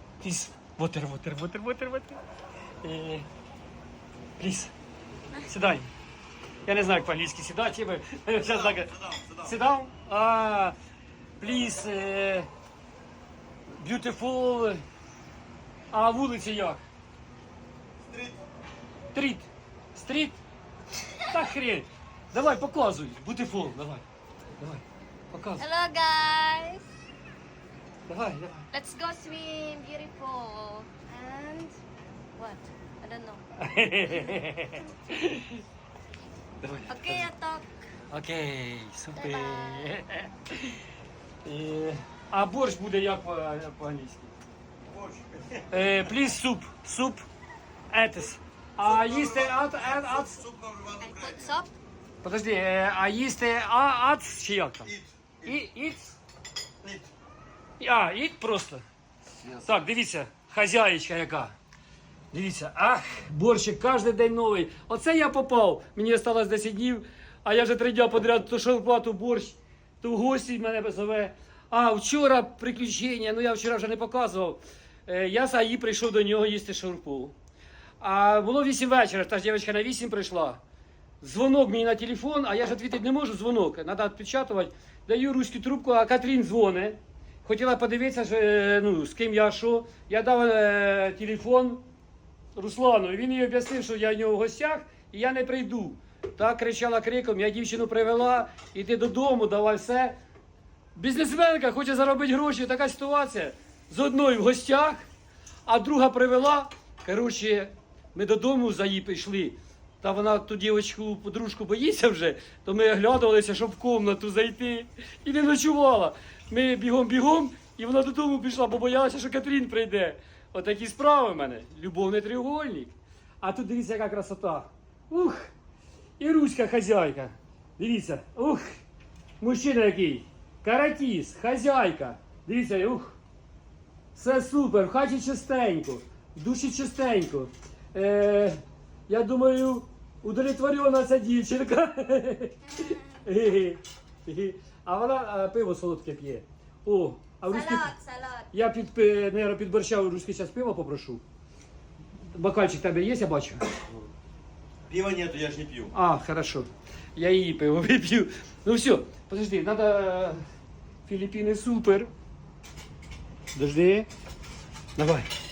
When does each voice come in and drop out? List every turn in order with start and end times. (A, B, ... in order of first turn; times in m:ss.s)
0:00.2-0:02.2 A
0:02.8-0:03.2 A
0:04.4-0:04.7 A
0:05.5-0:05.9 A
0:06.7-0:10.8 A
0:08.4-0:09.5 B
0:11.4-0:12.5 A
0:13.8-0:14.8 A
0:15.9-0:16.8 A
0:18.1-0:18.4 B
0:19.1-0:20.4 A
0:21.2-0:24.0 A
0:24.6-0:25.7 A
0:25.6-0:26.8 C
0:28.1-0:28.7 A
0:28.7-0:31.8 C
0:32.4-0:33.4 C
0:33.6-0:35.6 A
0:34.0-0:34.3 C
0:36.6-0:37.3 A
0:36.9-0:37.7 C
0:38.1-0:40.8 A
0:39.2-0:40.0 C
0:41.4-0:44.3 A
0:44.9-0:45.6 B
0:45.7-0:47.3 A
0:47.9-0:50.4 A
0:48.8-0:51.6 B
0:51.0-0:51.7 C
0:52.2-0:56.2 A
0:54.9-0:55.6 B
0:56.8-0:57.1 B
0:57.8-0:58.8 A
0:59.5-1:01.5 A
1:02.3-1:17.3 A
1:18.0-1:20.6 A
1:21.2-1:31.8 A
1:32.5-1:40.1 A
1:40.9-1:45.0 A
1:45.6-2:05.5 A
2:06.2-2:08.8 A
2:09.4-2:13.2 A
2:14.2-2:27.9 A
2:27.5-2:28.5 C
2:28.5-2:31.2 A
2:32.3-2:33.8 A
2:34.9-2:35.9 B
2:35.9-2:40.4 A
2:41.1-2:42.1 A
2:43.6-2:44.1 A
2:45.0-2:45.3 A